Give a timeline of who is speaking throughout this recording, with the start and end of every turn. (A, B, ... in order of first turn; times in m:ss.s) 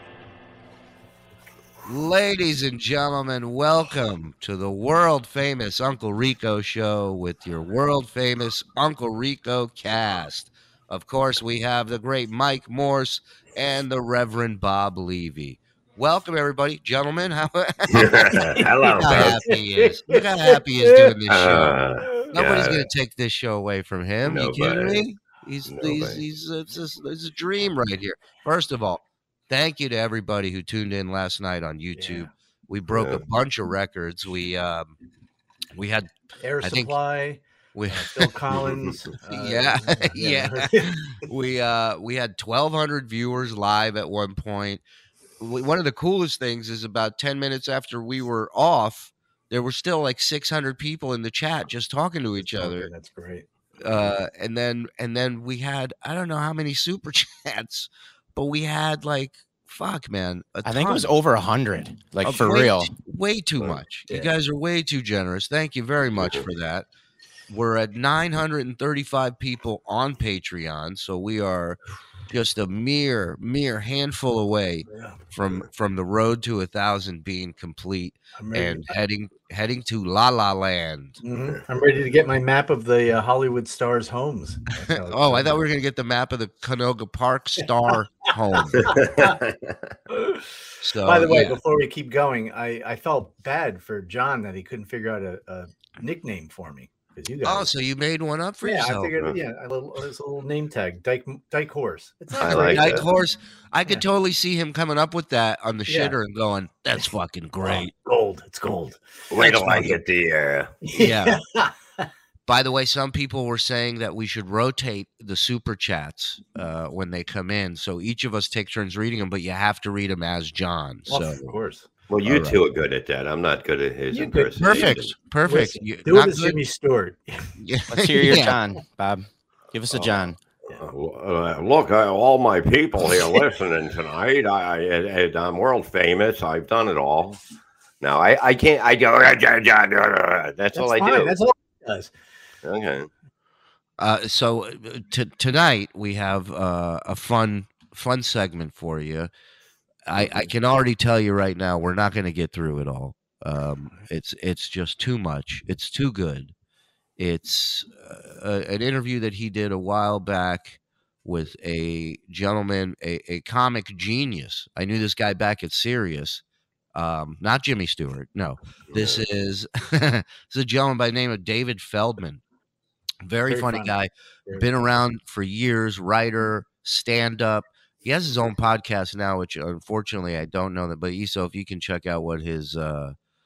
0:01.8-0:21.8 A
0:17.9-0:19.4 B
0:18.3-0:21.2 C
0:21.3-0:22.9 B
0:22.0-0:22.4 C
0:22.3-0:34.9 A
0:24.2-0:25.0 B
0:25.6-0:26.2 B
0:31.9-0:32.3 C
0:32.9-0:33.2 B
0:35.7-0:36.1 A
0:36.4-0:41.0 C
0:36.6-0:37.0 A
0:37.7-0:38.3 A
0:38.5-0:39.0 B
0:39.0-0:44.8 A
0:45.4-0:52.9 A
0:52.4-0:53.5 C
0:53.8-1:01.1 A
1:00.6-1:02.9 D
1:02.2-1:06.8 A
1:06.1-1:06.5 B
1:07.5-1:11.8 A
1:12.3-1:21.2 A
1:14.9-1:15.2 C
1:18.4-1:19.0 C
1:21.2-1:25.6 C
1:24.9-1:29.1 A
1:28.5-1:29.3 C
1:28.7-1:29.9 B
1:30.1-1:30.5 C
1:30.8-1:31.6 A
1:31.0-1:37.7 C
1:37.4-1:39.2 A
1:38.6-1:43.1 C
1:42.4-1:43.0 B
1:42.4-1:47.9 A
1:45.9-1:46.2 C
1:47.6-1:49.9 C
1:49.3-1:50.7 B
1:50.8-1:52.1 C
1:50.9-1:51.4 A
1:52.5-2:01.4 A
2:01.1-2:01.9 C
2:02.1-2:05.1 B
2:02.2-2:02.6 A
2:04.1-2:04.7 C
2:04.5-2:06.6 A
2:05.4-2:07.5 C
2:07.6-2:08.6 A
2:07.9-2:10.4 D
2:09.9-2:17.4 B
2:18.0-2:21.4 B
2:20.7-2:22.1 C
2:22.6-2:23.1 B
2:24.0-2:29.3 A
2:30.1-2:36.5 A
2:30.1-2:30.5 B
2:37.2-2:46.4 A
2:46.9-2:52.4 A
2:48.9-2:49.2 B
2:53.2-3:03.2 A
2:53.5-2:54.7 C